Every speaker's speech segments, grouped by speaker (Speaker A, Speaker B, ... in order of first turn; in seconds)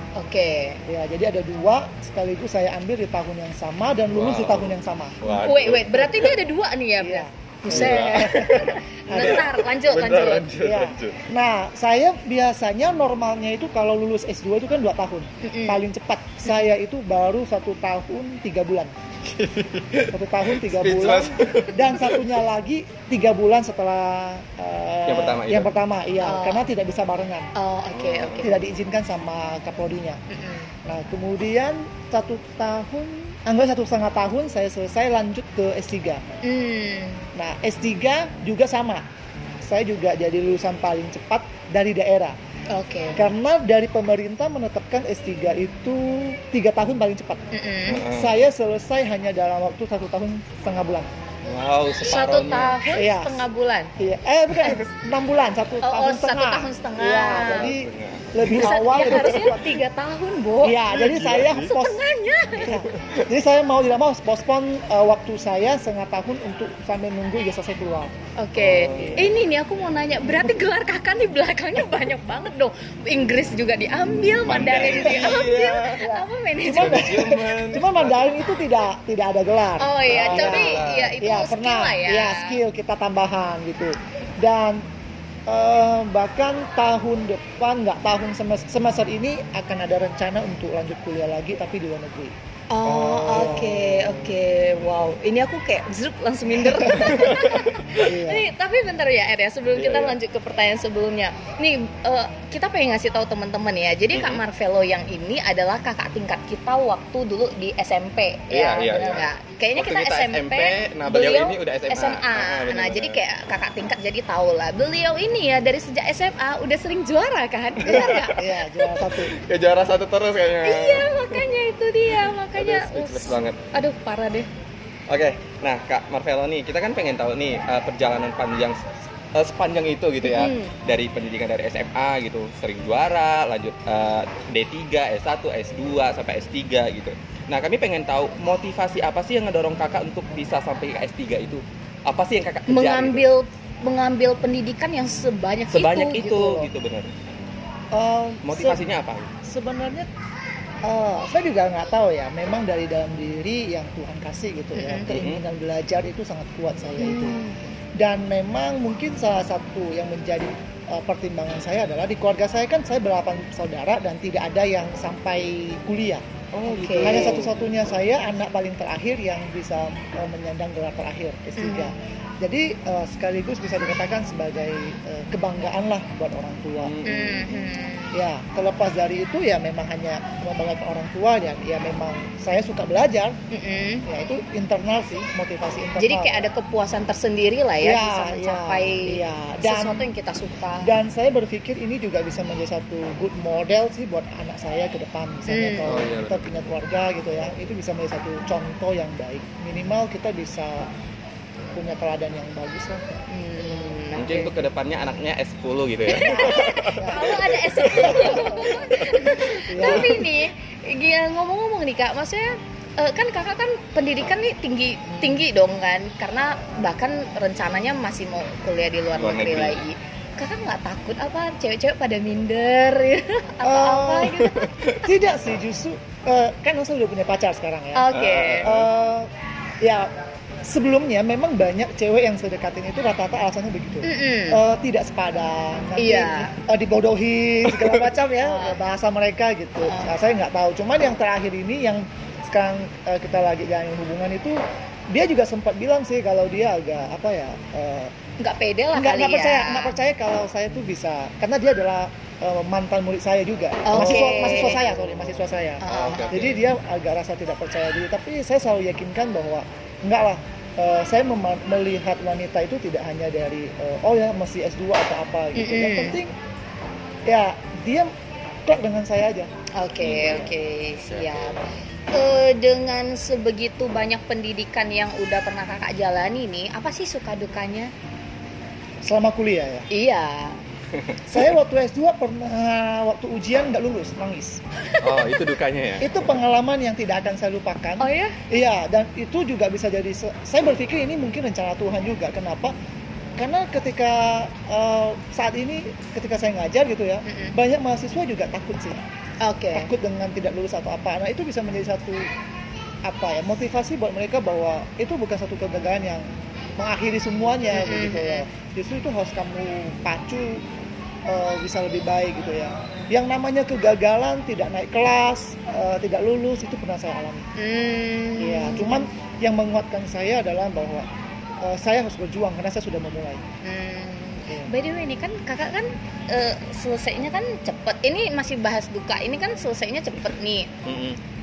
Speaker A: 0.1-0.8, 5.3-10.5, 15.4-15.8, 26.2-26.6, 27.5-28.5, 30.3-30.7, 36.4-37.2, 42.7-43.2, 47.5-48.0, 52.0-53.9, 54.6-54.8, 55.8-57.7, 58.5-60.9, 61.6-62.8, 68.4-77.5, 79.8-82.6, 92.7-118.9, 120.6-124.5, 130.2-130.7, 142.7-146.7, 154.7-155.1, 157.0-157.6, 166.5-167.4, 171.6-171.9, 177.0-178.2, 183.5-184.1, 186.0-190.9, 195.5-195.9, 203.3-204.5, 206.1-224.7, 227.9-228.7, 234.0-234.6, 236.0-236.5, 238.4-238.8, 239.8-240.1, 248.4-249.9, 253.8-254.8, 255.8-256.4, 265.5-266.2, 269.7-271.6, 272.1-277.9, 279.9-280.6, 284.9-285.2, 288.0-288.4, 297.2-297.5, 299.4-299.9, 307.7-308.4, 317.6-319.0, 323.6-330.7
Speaker B: 0.8-5.2, 7.0-9.5, 10.6-18.9, 20.1-27.5, 28.4-30.2, 30.8-36.3, 37.3-39.0, 39.6-42.4, 43.1-47.4, 48.1-51.1, 52.9-53.4, 54.0-59.8, 60.6-62.0, 62.5-68.2, 68.7-69.3, 74.9-84.8, 85.5-92.3, 92.8-94.3, 96.9-97.3, 98.0-98.5, 117.8-119.3, 147.9-148.8, 149.4-150.1, 150.8-157.4, 157.9-166.2, 166.9-176.9, 178.1-183.4, 184.1-186.5, 187.8-190.1, 190.8-200.9, 201.7-203.2, 206.1-209.0, 209.7-210.3, 223.6-224.5, 225.0-229.3, 229.8-230.1, 230.6-248.1, 248.9-266.3, 267.2-268.1, 268.6-269.5, 279.0-279.9, 281.2-284.6, 286.0-292.7, 293.4-299.0, 299.7-302.3, 303.0-306.2, 306.8-310.6, 311.2-317.4, 318.4-321.1, 321.6-323.4, 324.5-324.7
Speaker C: 4.1-6.3, 7.7-11.3, 19.3-22.2, 25.1-25.7, 27.9-28.5, 47.9-48.3, 51.4-52.8, 57.3-58.6, 59.2-59.6, 60.9-61.7, 62.6-63.3, 68.6-69.2, 74.4-76.1, 76.6-78.4, 80.1-81.1, 97.0-97.8, 99.8-100.2, 104.1-104.4, 108.5-113.2, 117.8-118.4, 119.0-121.4, 122.1-123.6, 125.1-128.8, 129.3-143.2, 145.7-147.1, 148.4-149.3, 155.1-155.4, 166.7-167.9, 176.8-177.6, 195.8-196.6, 204.2-210.3, 219.1-219.8, 224.5-225.0, 228.1-228.9, 255.9-256.6, 270.0-270.6, 285.0-286.2, 330.8-331.2